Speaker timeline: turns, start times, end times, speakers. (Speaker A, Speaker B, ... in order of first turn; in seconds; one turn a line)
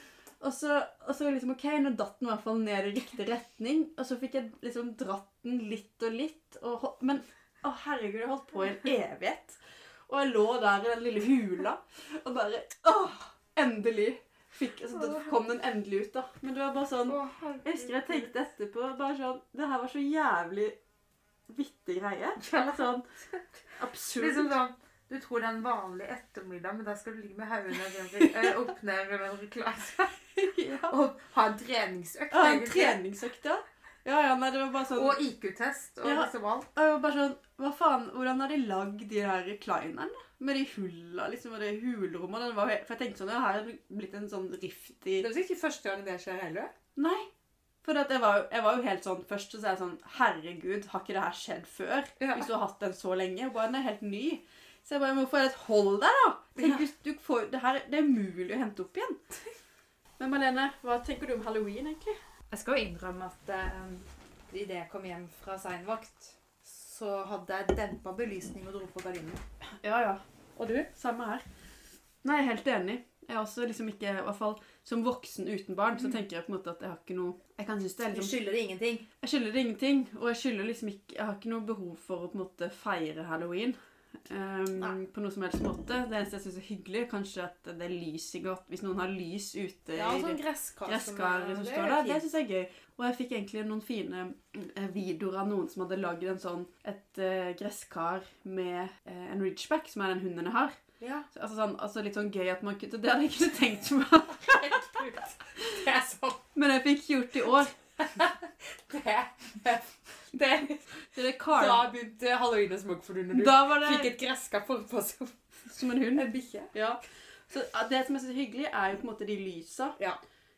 Speaker A: 0.4-20.8
Speaker B: 14.9-15.3
Speaker B: 17.0-18.3
Speaker A: 21.5-23.1
Speaker B: 22.4-23.4
Speaker A: 23.8-24.5
Speaker B: 24.2-33.0
Speaker A: 30.4-30.9
Speaker A: 32.3-35.2
Speaker B: 34.9-36.7
Speaker A: 36.0-45.3
Speaker B: 45.2-46.7
Speaker A: 47.0-47.3
Speaker A: 47.8-59.2
Speaker B: 52.2-52.5
Speaker B: 56.6-56.9
Speaker A: 60.2-62.2
Speaker B: 62.5-69.4
Speaker A: 69.8-70.2
Speaker B: 70.5-70.9
Speaker A: 70.9-71.5
Speaker A: 72.2-78.4
Speaker B: 78.0-79.1
Speaker A: 79.2-83.8
Speaker A: 84.3-100.8
Speaker B: 90.0-92.2
Speaker B: 101.0-101.3
Speaker A: 101.3-105.8
Speaker B: 104.4-106.4
Speaker A: 106.5-107.8
Speaker B: 108.0-115.3
Speaker A: 111.1-111.8
Speaker A: 113.3-114.1
Speaker A: 115.7-120.0
Speaker B: 116.1-116.7